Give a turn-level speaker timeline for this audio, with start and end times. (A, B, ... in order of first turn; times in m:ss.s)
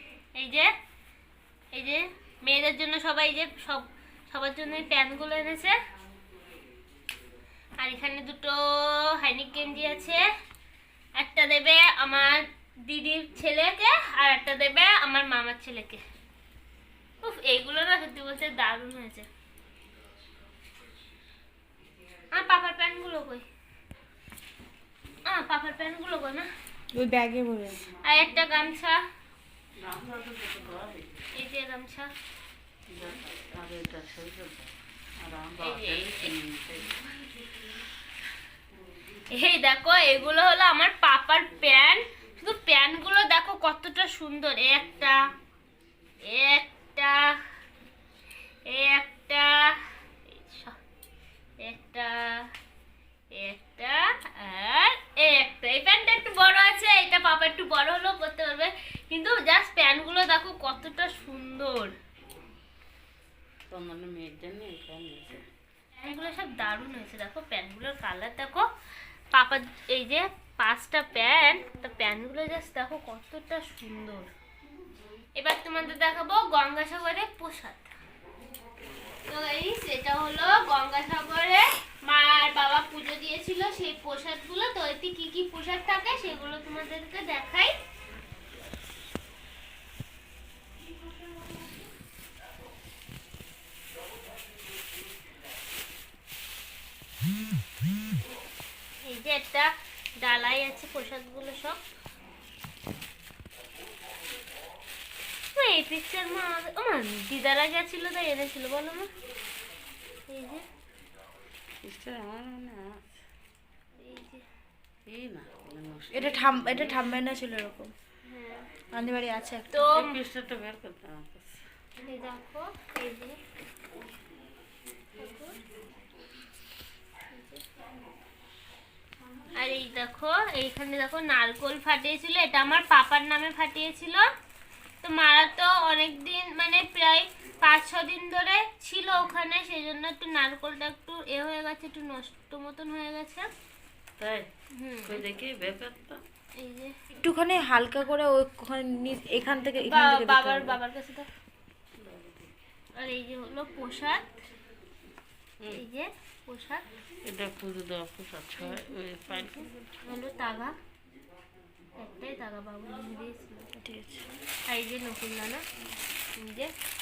0:00.4-0:00.7 A
0:01.7-0:05.8 A
0:07.8-0:10.2 A
0:11.2-0:16.0 A
0:17.2-0:19.3 A
0:22.3-0:23.4 A
0:25.2-0:26.5 A
0:26.9-0:27.8 B
0:28.0-0:29.0 A
0:29.8-0:31.1 C
0:31.3-0:32.1 A
0:32.9-0:37.0 C
0:35.6-0:36.3 A
0:39.3-0:45.2 A
0:46.2-0:47.4 A
0:48.7-0:50.8 A
0:51.6-0:52.4 A
0:53.3-1:01.9 A
1:03.7-1:05.4 C
1:06.0-1:08.6 A
1:09.3-1:14.3 A
1:15.4-1:17.9 A
1:19.3-1:27.7 A
1:39.0-1:41.8 A
1:45.5-1:49.1 A
1:50.3-1:50.6 A
1:51.8-1:53.1 C
1:54.0-1:54.4 A
1:55.0-1:57.1 C
1:56.1-1:57.9 B
1:58.2-1:58.7 A
1:58.9-1:59.8 B
1:59.7-2:00.2 A
1:59.9-2:01.6 C
2:02.0-2:03.4 A
2:05.2-2:05.6 A
2:07.3-2:07.6 A
2:09.6-2:14.2 A
2:15.0-2:23.5 A
2:24.2-2:24.5 C
2:24.7-2:25.2 A
2:25.0-2:26.2 C
2:26.6-2:26.9 A
2:27.1-2:30.8 B
2:29.8-2:31.3 A
2:32.0-2:32.5 C
2:33.0-2:34.4 A
2:35.7-2:36.8 A
2:37.2-2:39.7 C
2:38.6-2:40.7 A
2:42.0-2:43.8 A
2:43.8-2:44.2 C
2:44.7-2:45.6 A
2:46.4-2:46.7 A